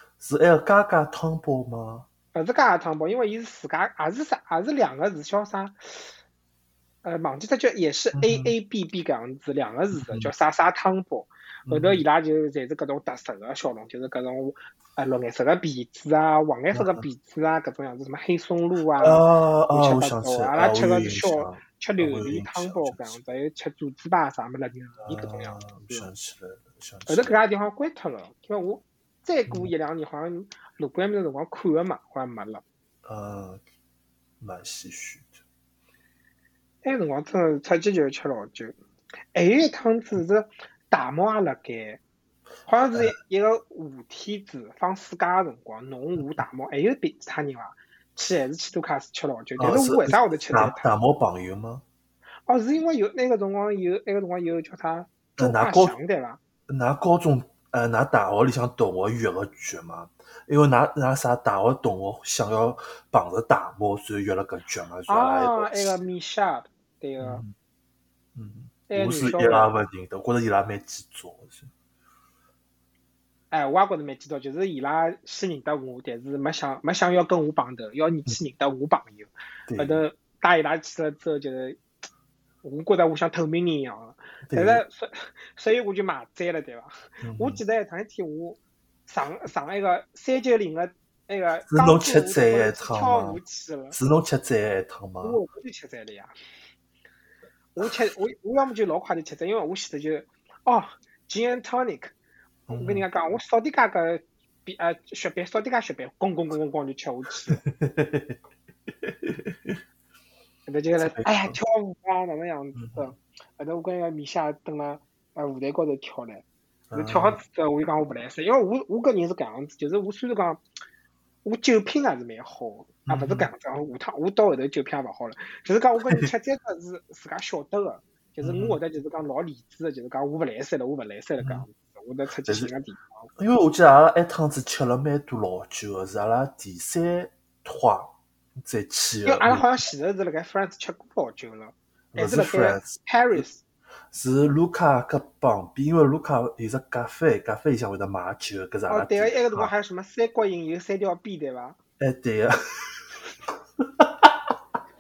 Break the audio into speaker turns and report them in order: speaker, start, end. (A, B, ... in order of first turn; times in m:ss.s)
0:00.2-0:02.1 A
0:02.3-0:06.1 B
0:07.0-0:26.1 B
0:08.1-0:08.5 A
0:09.9-0:10.3 A
0:11.7-0:12.0 A
0:16.7-0:17.0 A
0:19.0-0:23.2 A
0:25.0-0:27.4 A
0:27.1-0:32.6 B
0:33.0-0:33.6 A
0:34.4-0:35.4 A
0:36.8-0:38.8 B
0:39.3-0:42.0 B
0:42.7-0:50.9 B
0:49.6-0:51.8 A
0:52.5-0:56.4 B
0:55.4-0:56.0 A
0:56.7-1:06.0 A
1:05.1-1:07.4 B
1:07.2-1:07.5 A
1:08.4-1:11.7 A
1:08.9-1:09.7 B
1:13.5-1:21.8 B
1:19.7-1:20.0 A
1:22.6-1:34.0 B
1:24.5-1:24.8 A
1:27.2-1:27.6 A
1:31.7-1:33.4 A
1:33.9-1:35.4 A
1:35.2-1:36.3 B
1:37.8-1:42.1 B
1:42.7-1:43.1 A
1:42.7-1:47.6 B
1:47.5-1:48.4 A
1:49.0-1:49.8 A
1:50.7-2:00.6 B
1:51.0-1:51.6 A
1:52.8-1:53.1 A
1:56.9-1:57.4 A
2:01.4-2:13.3 B
2:03.1-2:03.5 A
2:08.4-2:08.8 A
2:11.4-2:11.7 A
2:12.5-2:12.7 A
2:13.4-2:19.7 A
2:19.3-2:23.6 B
2:22.1-2:23.4 A
2:24.1-2:29.7 A
2:28.9-2:31.8 B
2:32.0-2:33.1 A
2:33.8-2:34.5 A